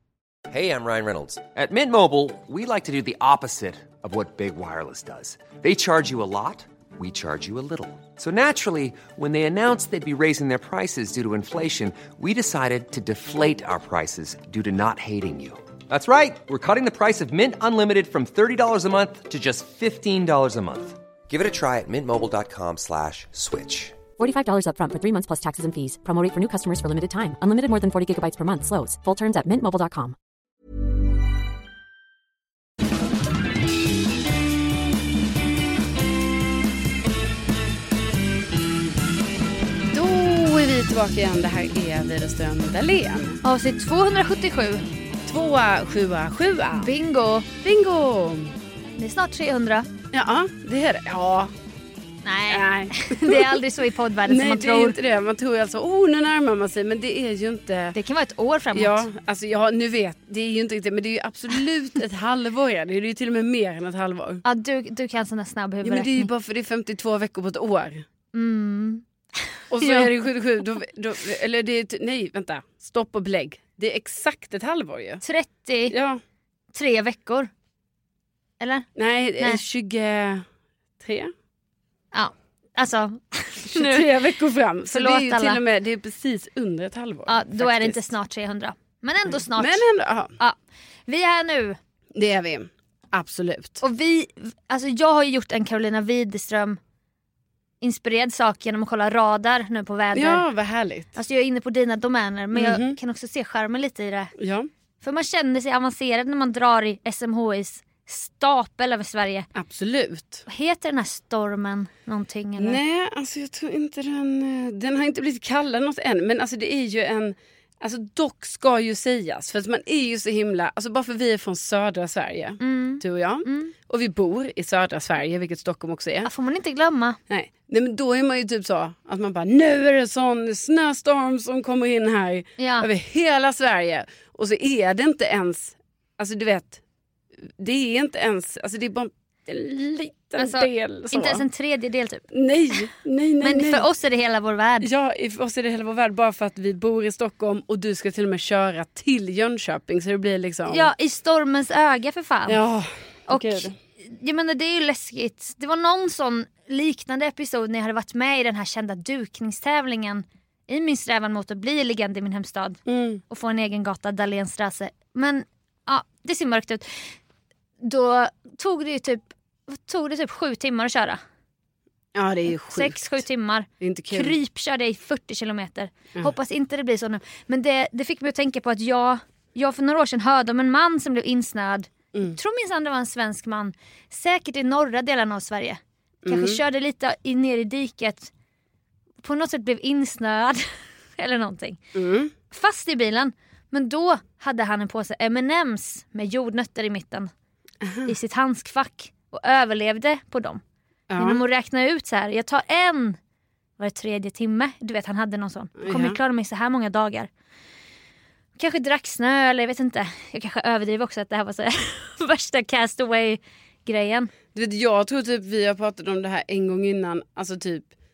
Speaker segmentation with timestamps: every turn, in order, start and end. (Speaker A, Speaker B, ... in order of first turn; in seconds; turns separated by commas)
Speaker A: 0.5-24.0, Speaker B: 24.2-30.1, Speaker C: 39.9-43.4, Speaker D: 43.4-44.8, Speaker C: 45.2-46.9, Speaker D: 46.7-47.5, Speaker C: 47.6-48.5, Speaker D: 49.0-49.9, Speaker C: 50.1-51.5, Speaker D: 52.2-55.0, Speaker C: 52.5-53.6, Speaker C: 54.3-58.0, Speaker D: 57.9-59.0, Speaker C: 58.7-64.4, Speaker D: 64.4-66.3, Speaker C: 65.8-68.0, Speaker D: 68.3-69.0, Speaker C: 69.7-75.2, Speaker D: 69.7-70.1, Speaker D: 75.2-76.0, Speaker C: 75.9-76.2, Speaker D: 76.7-77.5, Speaker D: 78.6-78.9, Speaker C: 79.0-80.5, Speaker C: 81.0-81.3, Speaker D: 82.1-84.3, Speaker C: 83.7-88.1, Speaker D: 84.9-85.6, Speaker D: 87.3-89.8, Speaker C: 89.3-90.3, Speaker D: 90.4-91.8, Speaker C: 92.1-93.8, Speaker D: 93.8-96.8, Speaker D: 97.8-100.4, Speaker C: 100.1-101.2, Speaker D: 101.2-104.3, Speaker C: 102.5-103.0, Speaker C: 104.4-104.7, Speaker D: 105.0-109.5, Speaker C: 109.5-110.4, Speaker D: 110.5-112.8, Speaker C: 112.6-126.3, Speaker D: 122.6-123.7, Speaker D: 126.2-127.2, Speaker C: 127.3-136.8, Speaker D: 132.6-132.9, Speaker C: 137.6-141.4, Speaker D: 140.4-142.8, Speaker C: 142.3-143.8, Speaker D: 143.4-144.9, Speaker C: 144.8-150.9, Speaker D: 150.7-152.6, Speaker C: 152.5-153.7, Speaker D: 153.3-167.1, Speaker C: 162.9-163.2, Speaker D: 167.8-171.2, Speaker C: 172.1-173.2, Speaker D: 172.7-188.3, Speaker C: 173.8-174.3, Speaker C: 186.2-186.6, Speaker D: 189.2-191.8, Speaker C: 191.9-192.3, Speaker D: 192.5-197.3, Speaker C: 197.8-198.1, Speaker D: 198.1-200.6, Speaker C: 201.1-201.4, Speaker D: 201.2-203.2, Speaker D: 203.8-207.3, Speaker C: 205.8-206.2, Speaker D: 208.6-214.3, Speaker C: 214.5-217.9